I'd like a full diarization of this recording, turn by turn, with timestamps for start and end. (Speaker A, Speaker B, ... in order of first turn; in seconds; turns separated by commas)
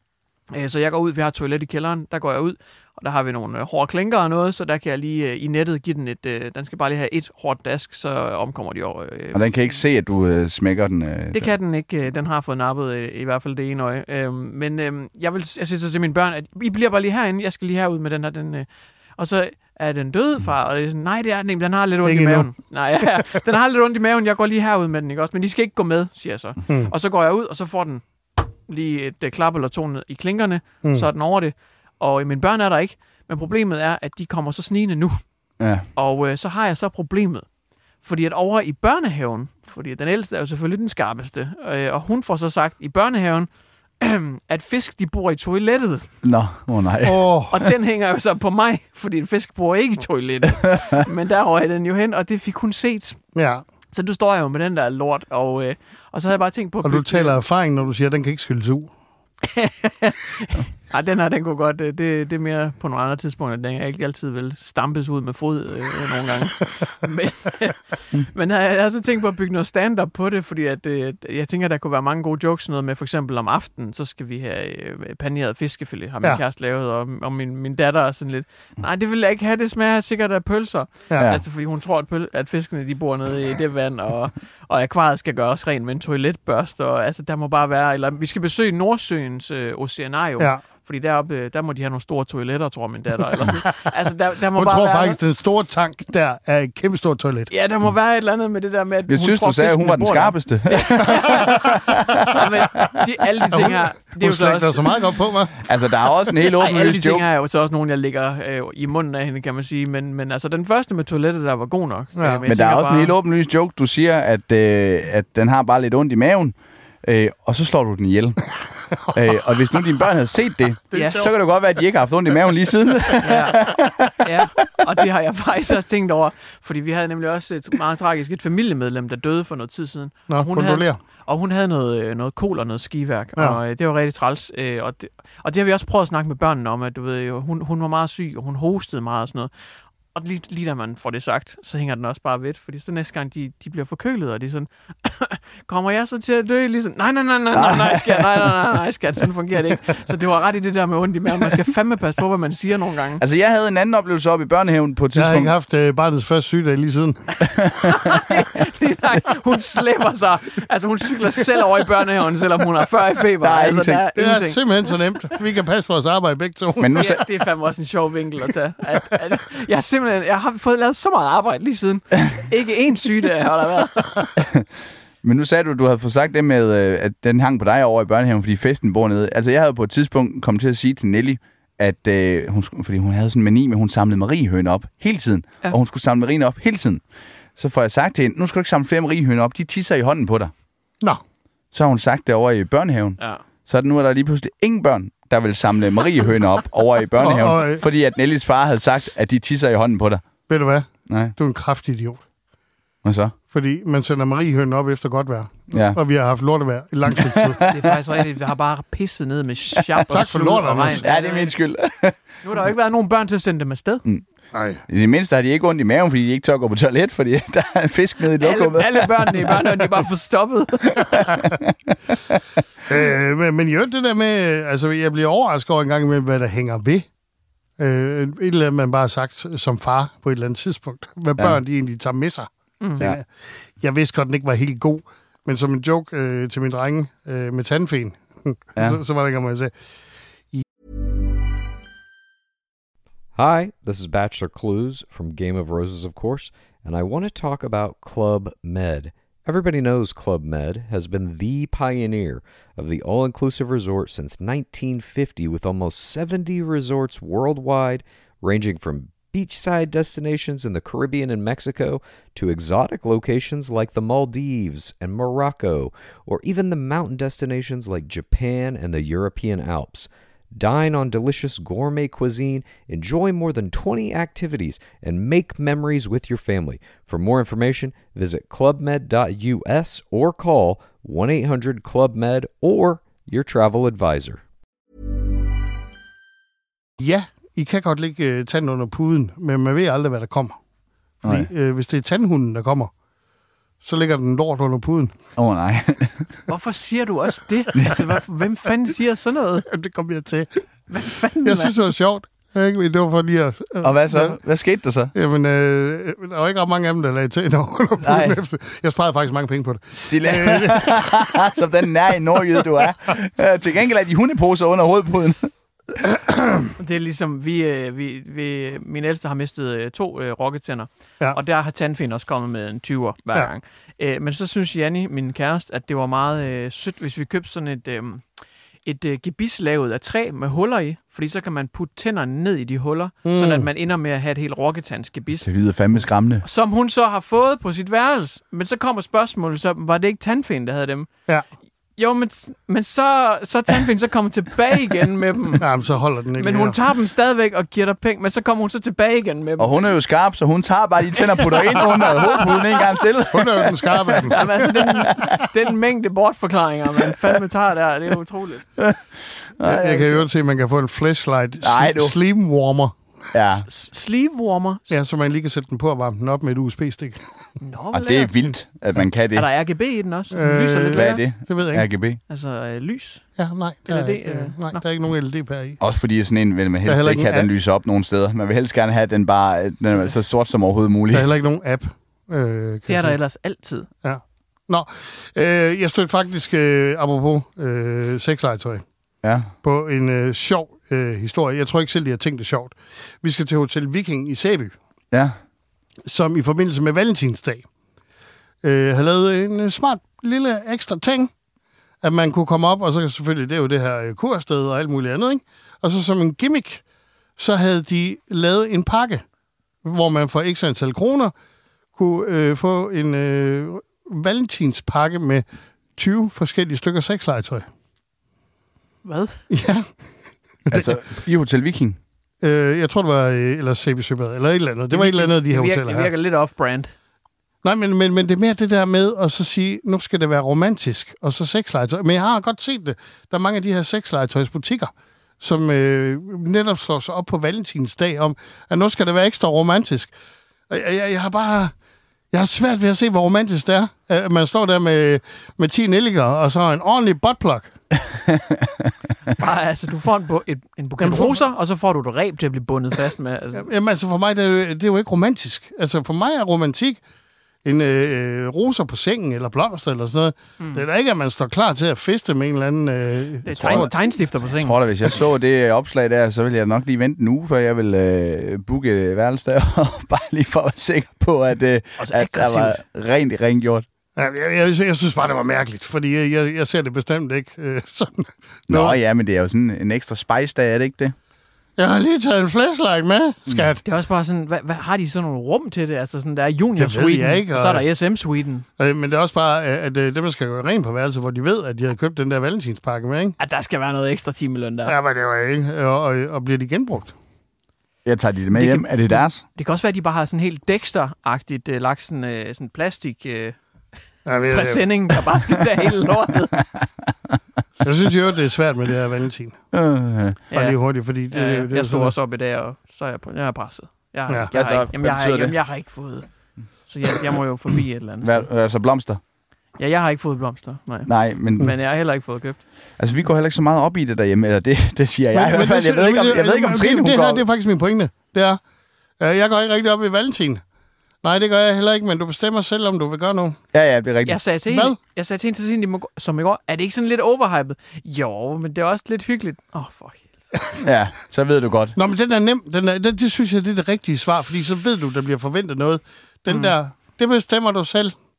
Speaker A: 0.5-9.4, Speaker B: 9.3-11.5, Speaker A: 11.3-28.0, Speaker C: 22.0-22.5, Speaker A: 28.7-35.2, Speaker B: 35.6-35.8, Speaker A: 36.0-37.4, Speaker A: 38.0-43.5, Speaker A: 44.0-46.1, Speaker B: 46.2-47.3, Speaker C: 47.0-47.6, Speaker A: 47.5-53.2, Speaker C: 53.3-53.6, Speaker A: 53.9-57.4, Speaker C: 56.8-58.9, Speaker A: 59.4-95.2, Speaker C: 94.5-97.5, Speaker A: 97.5-105.0, Speaker B: 99.1-102.6, Speaker C: 103.5-105.6, Speaker B: 105.6-107.2, Speaker A: 106.5-113.1, Speaker C: 112.2-112.4, Speaker B: 112.5-118.4, Speaker B: 119.1-124.2, Speaker C: 120.9-121.3, Speaker A: 120.9-121.3, Speaker A: 123.2-139.5, Speaker C: 130.3-131.0, Speaker A: 140.1-153.2, Speaker B: 147.5-148.5, Speaker B: 153.2-155.5, Speaker C: 155.1-157.4, Speaker B: 157.5-158.2, Speaker A: 157.9-164.6, Speaker B: 163.4-164.0, Speaker C: 164.1-167.0, Speaker B: 166.8-167.2, Speaker A: 166.9-174.3, Speaker B: 174.4-174.7, Speaker B: 175.2-187.0, Speaker B: 187.6-190.5, Speaker B: 191.7-200.2, Speaker C: 197.2-197.8, Speaker C: 200.5-202.2, Speaker B: 201.1-201.3, Speaker B: 203.0-203.3, Speaker C: 203.5-207.6, Speaker B: 205.7-206.0, Speaker B: 207.1-208.0, Speaker A: 207.7-211.5, Speaker B: 209.8-210.0, Speaker C: 210.1-211.0, Speaker B: 210.8-212.2, Speaker A: 212.4-214.0, Speaker C: 214.5-214.8, Speaker B: 214.9-219.8, Speaker A: 218.4-221.3, Speaker B: 220.9-221.9, Speaker C: 222.9-227.1, Speaker C: 227.8-233.3, Speaker C: 233.8-239.7, Speaker D: 243.3-284.4, Speaker C: 287.0-290.6, Speaker C: 291.2-292.9, Speaker B: 291.2-291.5, Speaker C: 293.8-295.1, Speaker B: 295.4-296.3, Speaker A: 296.5-299.7, Speaker B: 297.7-298.1, Speaker C: 299.7-300.6, Speaker A: 300.9-301.8, Speaker C: 301.4-304.4, Speaker B: 303.8-305.1, Speaker C: 305.1-311.2, Speaker B: 308.0-308.4, Speaker B: 310.1-315.5, Speaker C: 316.0-316.7, Speaker A: 316.8-328.2, Speaker A: 328.9-335.5, Speaker C: 333.2-333.7, Speaker B: 335.4-336.4, Speaker A: 336.4-341.1, Speaker A: 342.0-345.7, Speaker C: 345.6-346.8, Speaker A: 346.4-349.8, Speaker B: 349.6-355.4, Speaker A: 351.1-353.0, Speaker C: 353.3-355.1, Speaker A: 354.3-358.6, Speaker B: 358.8-359.0, Speaker B: 359.6-360.2, Speaker C: 359.6-362.9, Speaker B: 361.6-362.2, Speaker B: 363.3-363.6, Speaker A: 363.6-364.9, Speaker C: 364.9-367.2, Speaker A: 367.6-368.3, Speaker B: 367.9-369.4, Speaker A: 369.3-371.2, Speaker C: 370.3-371.9, Speaker B: 370.9-372.2, Speaker A: 372.3-373.2, Speaker C: 373.4-375.8, Speaker A: 373.9-374.8, Speaker B: 375.8-381.3, Speaker C: 376.8-377.5, Speaker C: 381.1-383.2, Speaker A: 382.9-383.9, Speaker C: 384.0-388.8, Speaker B: 389.2-389.5, Speaker C: 389.6-394.7, Speaker C: 396.1-397.6, Speaker C: 398.6-401.3, Speaker C: 402.0-406.8, Speaker C: 407.4-409.2, Speaker C: 409.8-411.3, Speaker C: 411.9-415.4, Speaker C: 415.9-417.6, Speaker A: 419.0-419.4, Speaker C: 419.5-419.9, Speaker B: 420.7-422.0, Speaker C: 422.4-426.1, Speaker A: 424.9-426.9, Speaker C: 427.6-440.1, Speaker C: 440.7-441.7, Speaker C: 442.3-447.7, Speaker B: 448.4-448.6, Speaker A: 449.4-453.7, Speaker C: 451.0-451.4, Speaker C: 453.5-457.0, Speaker C: 457.6-463.9, Speaker A: 460.6-460.8, Speaker A: 463.4-464.8, Speaker B: 463.6-463.9, Speaker B: 464.4-473.8, Speaker A: 472.0-472.8, Speaker C: 474.1-479.0, Speaker B: 478.7-481.1, Speaker C: 481.8-483.8, Speaker A: 483.8-488.6, Speaker C: 486.8-487.8, Speaker C: 488.8-493.4, Speaker A: 493.4-494.9, Speaker C: 494.9-497.1, Speaker B: 498.0-499.4, Speaker A: 498.5-503.6, Speaker C: 504.2-504.8, Speaker A: 504.5-506.6, Speaker C: 507.8-509.6, Speaker B: 509.7-510.4, Speaker A: 510.5-510.8, Speaker C: 510.5-512.1, Speaker A: 511.3-516.3, Speaker B: 514.5-515.5, Speaker A: 516.9-518.5, Speaker B: 518.2-519.2, Speaker A: 519.8-522.6, Speaker B: 521.1-521.7, Speaker B: 523.0-527.4, Speaker C: 525.3-528.6, Speaker C: 529.2-530.6, Speaker C: 531.2-533.6, Speaker B: 533.7-534.4, Speaker A: 534.2-540.3, Speaker C: 534.7-535.0, Speaker B: 540.8-542.0, Speaker C: 542.0-548.1, Speaker A: 546.5-546.7